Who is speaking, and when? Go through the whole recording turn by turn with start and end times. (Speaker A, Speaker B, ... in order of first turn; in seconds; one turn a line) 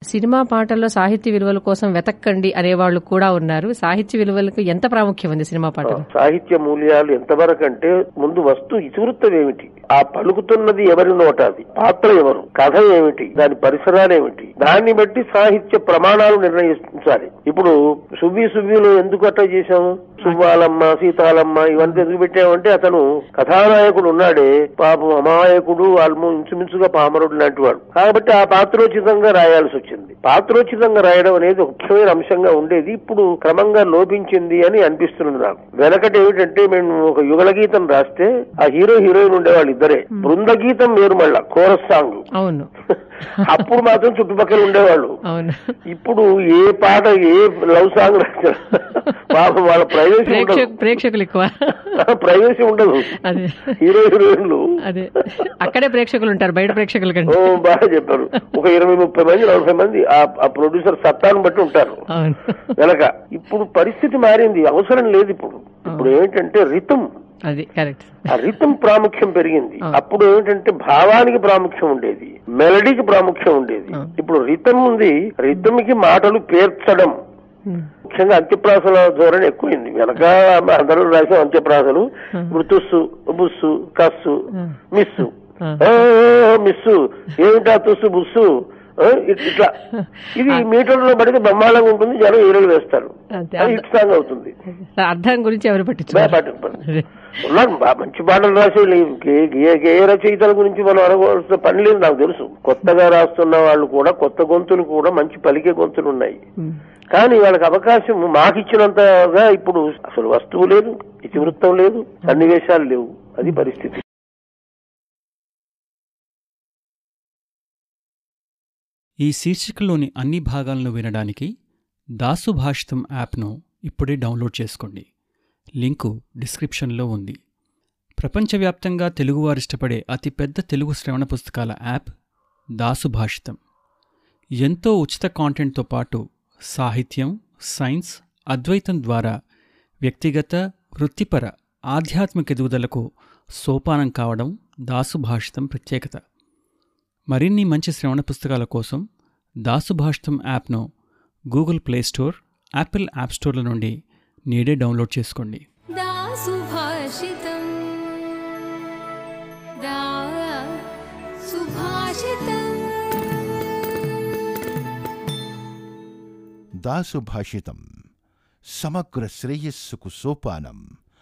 Speaker A: 0.1-6.0
Speaker B: 5.9-42.2
Speaker A: 20.2-20.5
Speaker A: 42.4-42.7
Speaker B: 43.5-45.1
Speaker A: 45.3-45.7
Speaker B: 45.9-50.7
Speaker A: 50.2-51.9
Speaker B: 51.9-53.1
Speaker A: 53.1-53.7
Speaker B: 53.8-54.6
Speaker A: 54.9-57.5
Speaker B: 57.3-62.0
Speaker A: 62.1-62.6
Speaker B: 62.8-67.0
Speaker A: 67.5-68.3
Speaker B: 68.3-77.1
Speaker B: 78.0-85.3
Speaker A: 84.5-85.9
Speaker B: 85.8-89.7
Speaker A: 89.9-90.6
Speaker B: 90.3-94.5
Speaker A: 93.3-93.8
Speaker A: 94.7-97.1
Speaker B: 96.1-96.8
Speaker B: 97.4-106.4
Speaker B: 107.1-114.0
Speaker C: 119.2-121.5
Speaker C: 122.2-125.0
Speaker C: 125.8-127.4
Speaker C: 128.2-132.1
Speaker C: 132.8-133.6
Speaker C: 134.6-139.3
Speaker C: 140.0-143.0
Speaker C: 143.6-146.2
Speaker C: 147.3-149.0
Speaker C: 149.7-150.8
Speaker C: 151.5-153.9
Speaker C: 154.5-155.6
Speaker D: 156.0-158.4
Speaker D: 159.8-160.9
Speaker D: 161.4-163.1
Speaker E: 166.8-167.9
Speaker E: 168.6-170.9